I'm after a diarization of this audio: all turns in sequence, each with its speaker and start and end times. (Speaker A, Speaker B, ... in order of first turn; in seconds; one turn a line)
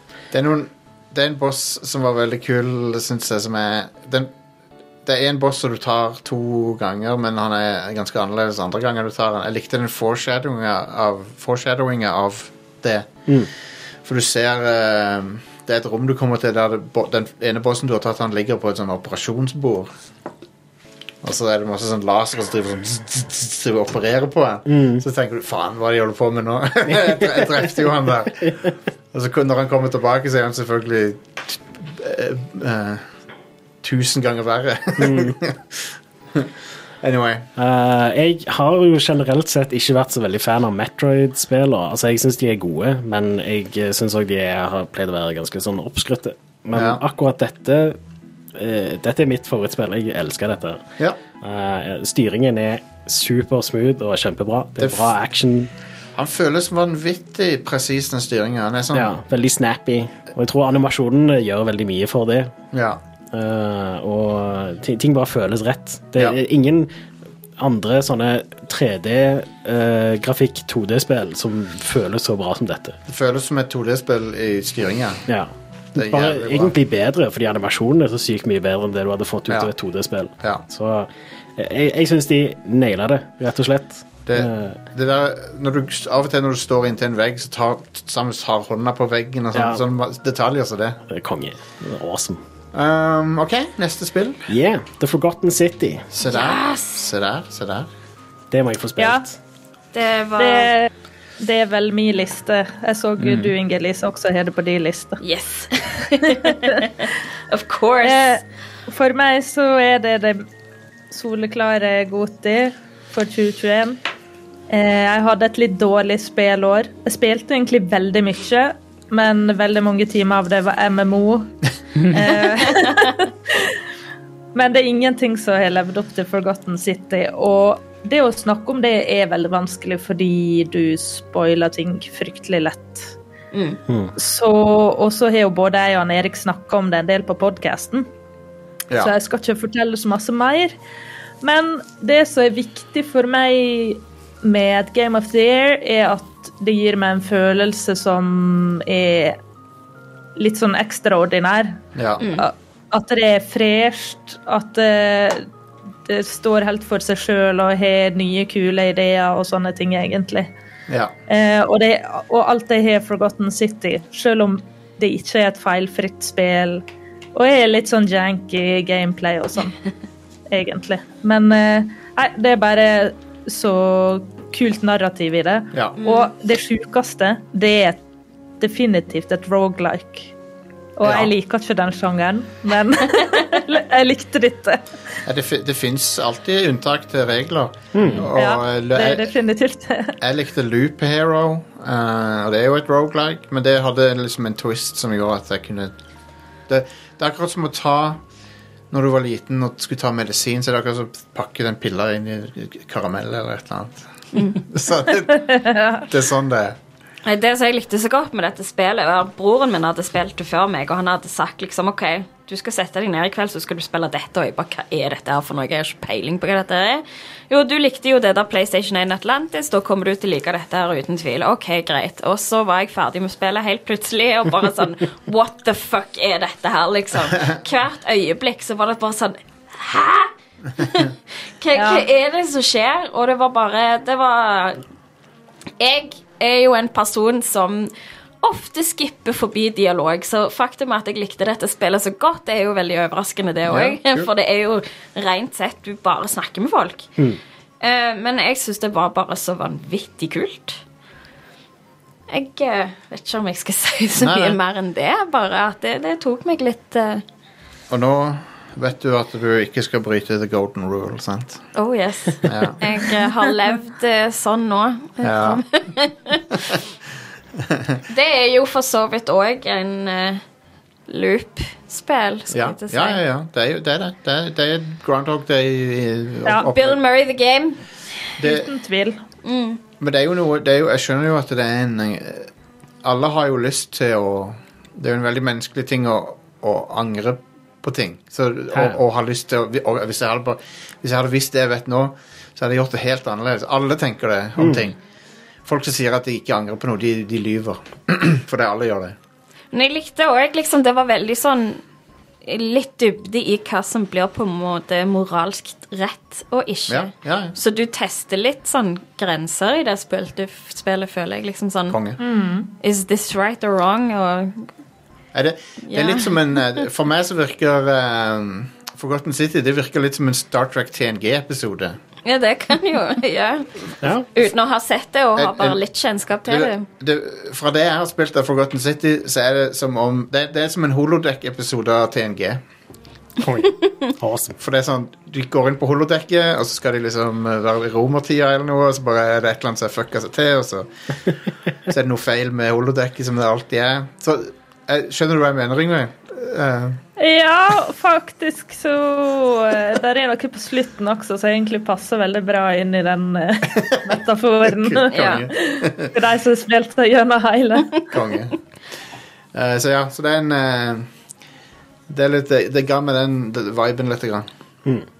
Speaker A: 0.3-4.3
Speaker A: 5.0-13.1
Speaker A: 14.0-19.9
Speaker A: 21.2-33.0
Speaker B: 24.7-25.0
Speaker B: 26.9-27.7
Speaker A: 33.8-36.5
Speaker B: 35.0-35.4
Speaker A: 37.0-37.5
Speaker B: 37.5-48.0
Speaker A: 46.8-47.0
Speaker B: 48.5-50.8
Speaker B: 51.4-55.7
Speaker A: 54.8-55.1
Speaker A: 56.1-59.1
Speaker B: 58.9-62.5
Speaker A: 62.7-63.0
Speaker B: 63.3-66.9
Speaker B: 67.6-73.0
Speaker A: 73.1-75.2
Speaker B: 75.3-84.8
Speaker A: 76.0-76.7
Speaker A: 84.2-91.0
Speaker B: 89.5-89.8
Speaker B: 91.1-92.4
Speaker A: 92.7-94.4
Speaker B: 94.5-96.1
Speaker A: 96.1-97.9
Speaker C: 96.2-97.0
Speaker B: 98.5-99.4
Speaker C: 99.9-100.7
Speaker D: 100.4-100.9
Speaker D: 101.4-105.2
Speaker C: 105.2-108.3
Speaker D: 106.3-106.8
Speaker D: 108.0-110.5
Speaker D: 111.1-114.0
Speaker D: 114.7-123.7
Speaker D: 124.5-133.1
Speaker C: 133.5-133.8
Speaker B: 133.9-134.1
Speaker D: 134.2-138.1
Speaker D: 139.0-140.7
Speaker D: 141.4-149.4
Speaker D: 150.3-151.8
Speaker A: 151.9-152.3
Speaker C: 152.2-152.5
Speaker D: 152.3-155.5
Speaker D: 156.1-160.5
Speaker A: 160.9-161.1
Speaker D: 161.3-166.8
Speaker D: 167.3-169.8
Speaker D: 170.5-178.0
Speaker A: 175.7-176.0
Speaker C: 176.0-176.3
Speaker D: 178.6-180.3
Speaker D: 181.0-184.8
Speaker A: 181.0-181.3
Speaker A: 185.2-189.3
Speaker B: 187.9-188.3
Speaker D: 188.3-190.2
Speaker A: 190.2-195.9
Speaker A: 196.7-198.2
Speaker A: 198.9-206.8
Speaker C: 207.2-234.8
Speaker D: 231.7-232.1
Speaker C: 235.8-237.9
Speaker C: 238.4-247.1
Speaker A: 243.7-244.3
Speaker C: 247.8-250.8
Speaker C: 252.3-257.2
Speaker A: 254.2-254.6
Speaker A: 257.9-261.6
Speaker C: 261.7-266.4
Speaker A: 262.4-262.8
Speaker A: 265.2-265.6
Speaker A: 267.6-268.0
Speaker C: 268.1-270.4
Speaker C: 271.1-273.2
Speaker A: 272.5-277.0
Speaker C: 276.6-277.8
Speaker A: 278.4-278.7
Speaker D: 278.4-279.2
Speaker C: 279.4-279.8
Speaker A: 280.0-282.5
Speaker A: 283.0-295.0
Speaker A: 295.6-299.1
Speaker C: 299.7-301.8
Speaker C: 302.4-312.0
Speaker A: 306.9-307.6
Speaker A: 311.9-312.2
Speaker D: 312.2-312.7
Speaker C: 312.8-314.6
Speaker A: 315.3-322.0
Speaker C: 315.9-316.4
Speaker C: 322.2-323.7
Speaker B: 324.0-324.3
Speaker C: 324.3-326.9
Speaker A: 325.4-325.8
Speaker A: 326.4-332.6
Speaker B: 333.4-334.6
Speaker A: 334.6-340.9
Speaker A: 341.9-347.0
Speaker D: 347.2-358.0
Speaker A: 354.7-356.1
Speaker C: 355.1-355.5
Speaker A: 358.1-358.6
Speaker A: 359.5-361.1
Speaker A: 362.1-364.5